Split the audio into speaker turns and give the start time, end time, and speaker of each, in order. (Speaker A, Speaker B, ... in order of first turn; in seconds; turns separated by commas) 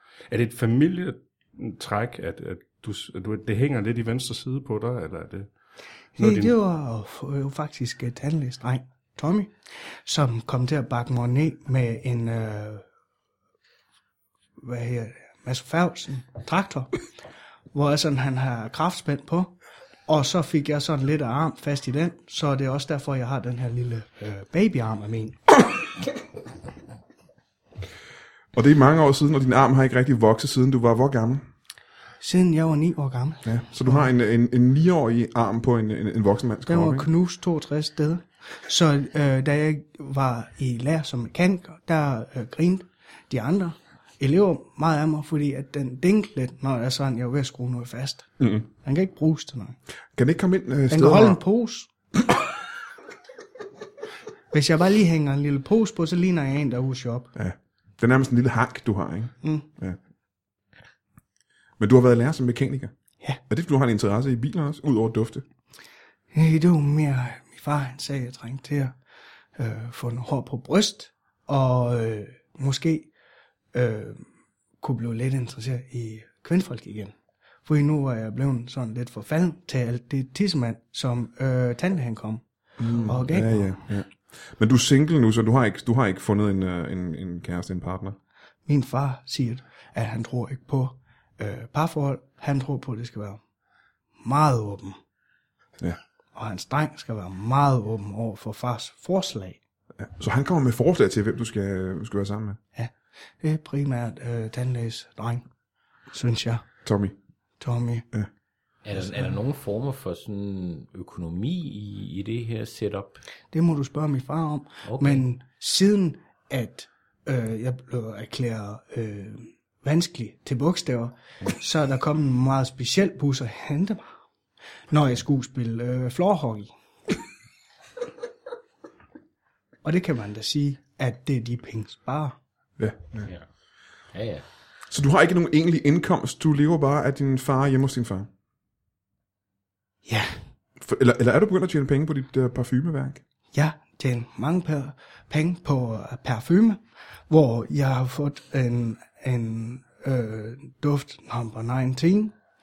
Speaker A: 0.3-5.5, Speaker B: 6.2-12.8, Speaker A: 6.2-6.5, Speaker B: 14.6-17.0, Speaker B: 17.7-19.6, Speaker B: 20.1-25.5, Speaker C: 28.5-31.5, Speaker B: 32.2-34.1, Speaker C: 33.5-37.1, Speaker B: 36.7-49.8, Speaker C: 48.4-48.7, Speaker C: 50.2-51.4, Speaker B: 50.9-51.9, Speaker B: 54.5-57.3, Speaker C: 57.4-60.0, Speaker C: 61.8-62.9, Speaker C: 63.5-65.4, Speaker B: 66.3-69.0, Speaker B: 69.6-73.1, Speaker B: 73.7-74.3, Speaker B: 74.8-82.4, Speaker C: 82.8-88.2, Speaker B: 83.0-83.7, Speaker B: 88.7-93.4, Speaker B: 94.2-95.0, Speaker B: 96.3-99.6, Speaker C: 100.0-102.6, Speaker B: 102.8-105.5, Speaker B: 106.1-106.6, Speaker C: 106.8-107.1, Speaker B: 107.6-108.1, Speaker D: 108.8-113.2, Speaker B: 109.0-109.4, Speaker B: 113.5-124.1, Speaker D: 114.8-115.2, Speaker B: 124.9-126.7, Speaker B: 129.8-132.4, Speaker C: 132.8-133.3, Speaker D: 134.1-134.4, Speaker C: 134.9-138.3, Speaker B: 140.1-140.4, Speaker C: 140.8-143.2, Speaker B: 143.5-152.4